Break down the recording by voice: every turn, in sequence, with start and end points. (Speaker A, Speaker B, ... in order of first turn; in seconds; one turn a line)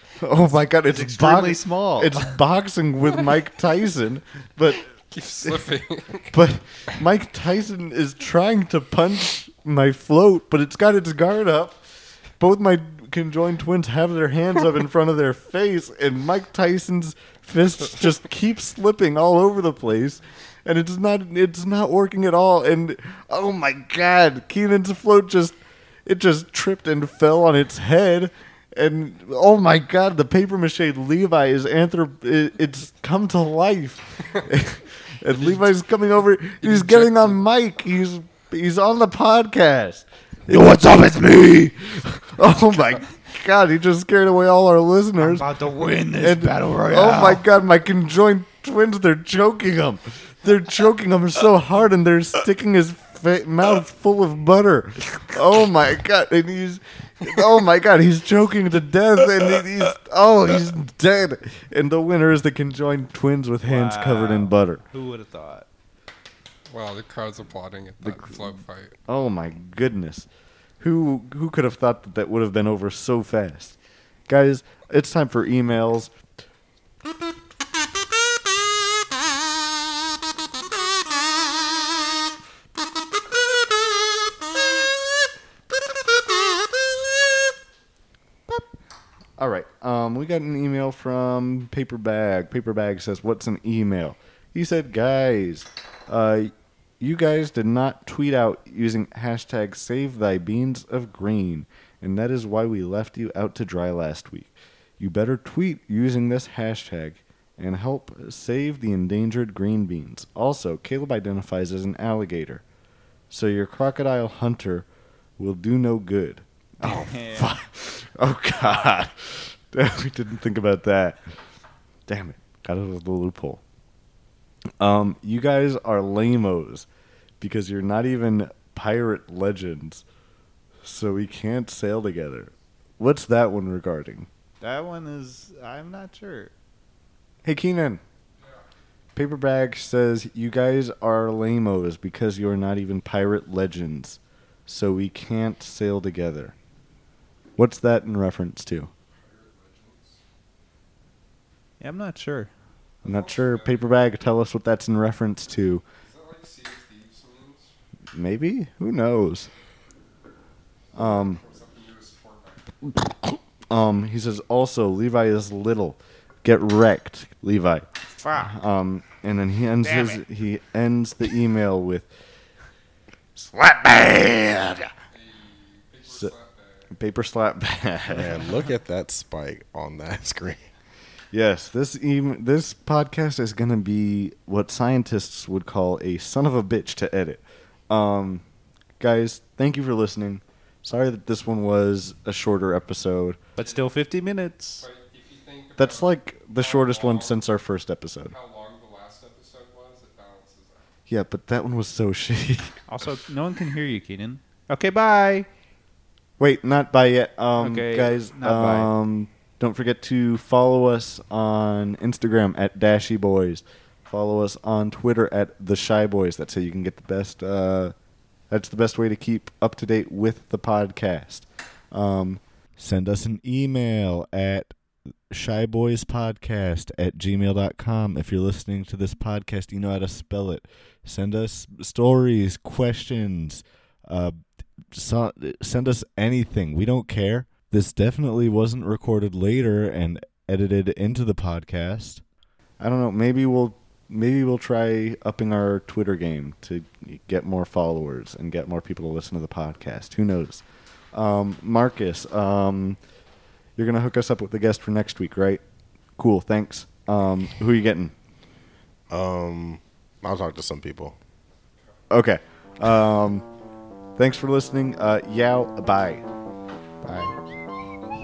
Speaker A: 0.2-4.9
Speaker B: 0.8-2.4
Speaker C: 5.1-6.3
Speaker A: 6.3-40.0
Speaker C: 35.4-35.7
Speaker C: 36.6-37.4
Speaker B: 40.5-41.7
Speaker A: 41.8-45.5
Speaker B: 45.2-47.4
Speaker A: 46.1-64.8
Speaker B: 63.6-65.7
Speaker C: 66.7-69.0
Speaker A: 68.0-68.5
Speaker A: 69.1-70.3
Speaker A: 70.8-73.8
Speaker A: 74.3-76.1
Speaker A: 86.5-86.7
Speaker A: 89.4-112.6
Speaker A: 113.3-114.9
Speaker A: 115.4-121.2
Speaker B: 116.8-117.5
Speaker A: 122.1-123.6
Speaker A: 124.8-126.9
Speaker A: 127.4-130.0
Speaker A: 130.8-134.3
Speaker B: 134.6-136.5
Speaker A: 137.4-138.0
Speaker A: 139.2-146.5
Speaker A: 147.6-148.9
Speaker C: 149.2-150.2
Speaker B: 151.8-152.5
Speaker C: 153.0-153.9
Speaker A: 153.0-155.8
Speaker C: 156.0-157.7
Speaker A: 158.1-159.5
Speaker A: 160.9-161.4
Speaker C: 160.9-162.7
Speaker A: 162.9-172.1
Speaker B: 168.2-168.6
Speaker B: 169.8-170.2
Speaker A: 173.4-174.9
Speaker C: 175.1-176.9
Speaker A: 176.9-178.4
Speaker D: 178.1-180.6
Speaker A: 181.3-188.4
Speaker A: 189.0-193.4
Speaker B: 193.6-194.9
Speaker C: 194.8-197.5
Speaker A: 195.8-198.3
Speaker C: 198.3-200.8
Speaker A: 201.1-202.8
Speaker B: 202.9-205.5
Speaker A: 206.4-217.9
Speaker B: 207.6-208.9
Speaker A: 218.5-224.7
Speaker A: 225.3-234.4
Speaker A: 234.9-242.2
Speaker A: 242.8-253.0
Speaker A: 253.8-255.6
Speaker A: 256.2-258.1
Speaker D: 259.1-261.2
Speaker A: 262.1-263.5
Speaker A: 264.2-266.2
Speaker B: 267.0-267.3